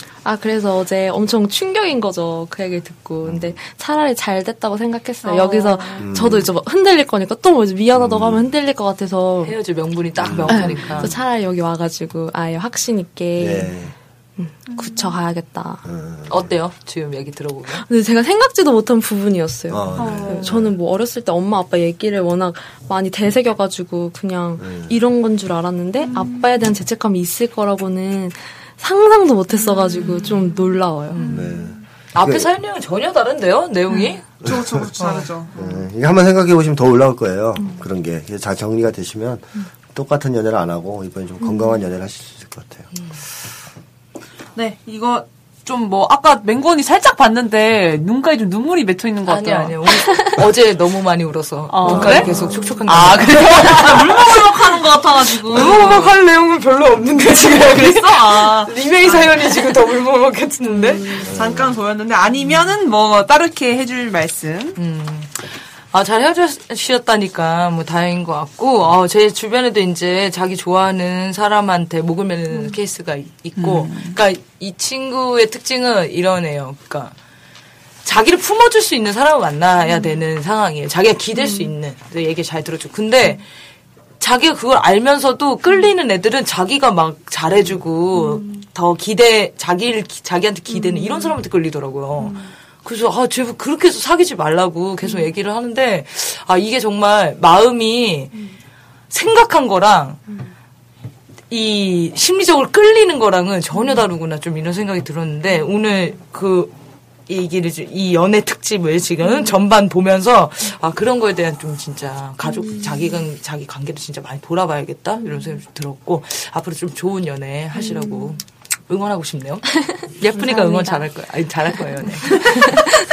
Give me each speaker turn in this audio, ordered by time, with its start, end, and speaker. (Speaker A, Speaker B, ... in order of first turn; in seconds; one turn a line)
Speaker A: 0.2-9.5
Speaker B: 3.2-3.5
Speaker C: 5.2-6.1
Speaker B: 6.0-6.5
Speaker B: 7.9-8.5
Speaker D: 9.4-11.1
Speaker B: 10.2-10.9
Speaker A: 10.5-13.8
Speaker B: 13.3-13.9
Speaker A: 14.4-15.8
Speaker C: 14.7-15.1
Speaker B: 15.8-16.6
Speaker D: 16.3-17.8
Speaker A: 17.7-31.2
Speaker B: 19.7-20.8
Speaker C: 20.0-20.5
Speaker B: 24.6-24.9
Speaker D: 29.9-30.3
Speaker D: 31.1-31.5
Speaker B: 31.3-32.5
Speaker D: 32.1-34.4
Speaker C: 34.4-35.5
Speaker B: 34.4-34.9
Speaker D: 35.0-35.3
Speaker B: 35.5-42.9
Speaker A: 41.4-41.8
Speaker C: 44.5-50.0
Speaker D: 49.3-54.5
Speaker C: 51.7-56.1
Speaker B: 51.8-52.6
Speaker D: 55.3-61.2
Speaker C: 57.6-59.5
Speaker C: 60.8-64.8
Speaker B: 61.2-61.7
Speaker D: 64.8-77.1
Speaker C: 73.5-74.2
Speaker D: 78.0-83.4
Speaker A: 81.3-81.7
Speaker D: 84.2-98.4
Speaker A: 88.1-88.5
Speaker A: 90.7-91.3
Speaker D: 99.1-100.2
Speaker D: 101.5-106.7
Speaker D: 107.3-122.8
Speaker A: 117.8-118.3
Speaker A: 120.3-121.0